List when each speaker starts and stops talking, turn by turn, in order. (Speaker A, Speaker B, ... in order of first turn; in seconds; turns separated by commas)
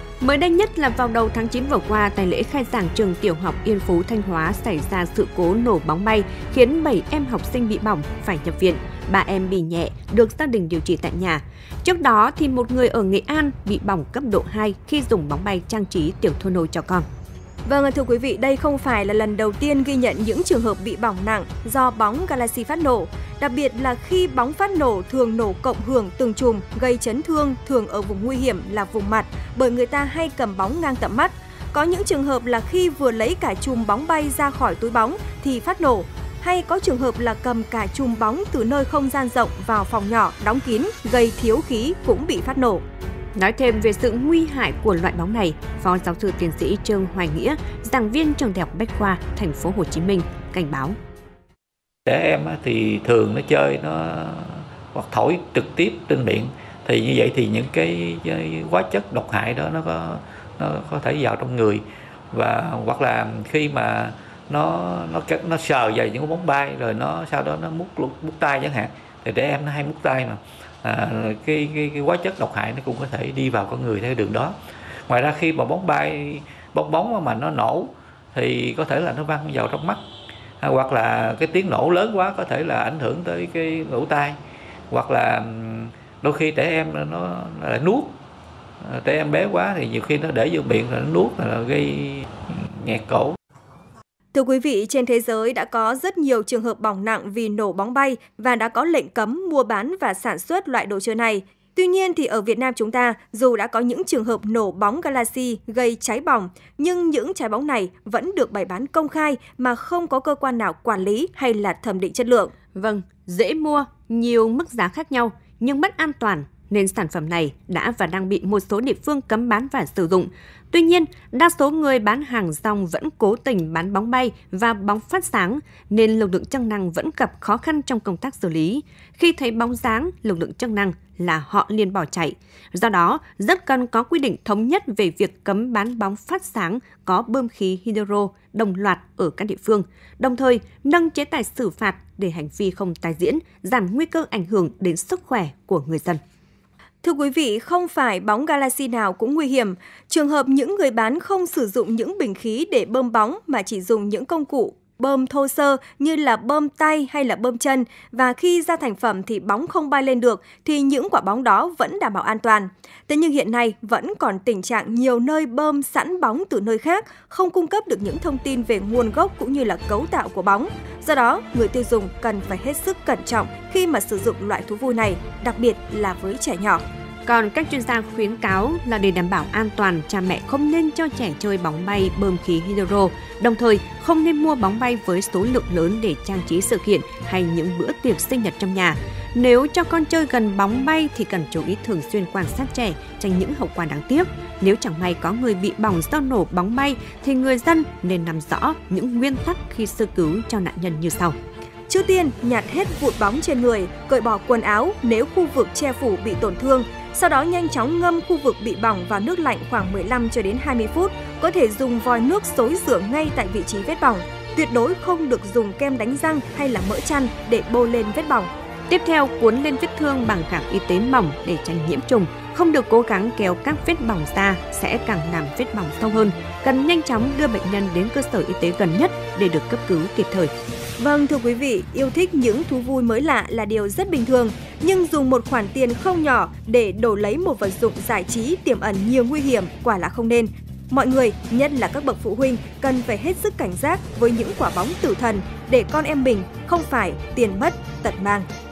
Speaker A: 0.2-17.1, Speaker B: 17.6-42.8, Speaker A: 43.4-51.0, Speaker C: 52.1-74.5, Speaker C: 75.1-80.0, Speaker C: 80.6-84.4, Speaker C: 84.9-88.2, Speaker C: 88.8-93.4, Speaker B: 94.3-112.5, Speaker A: 112.7-146.2, Speaker B: 147.0-176.8, Speaker A: 177.2-201.4, Speaker B: 201.9-218.5, Speaker A: 218.9-230.5, Speaker B: 231.0-248.5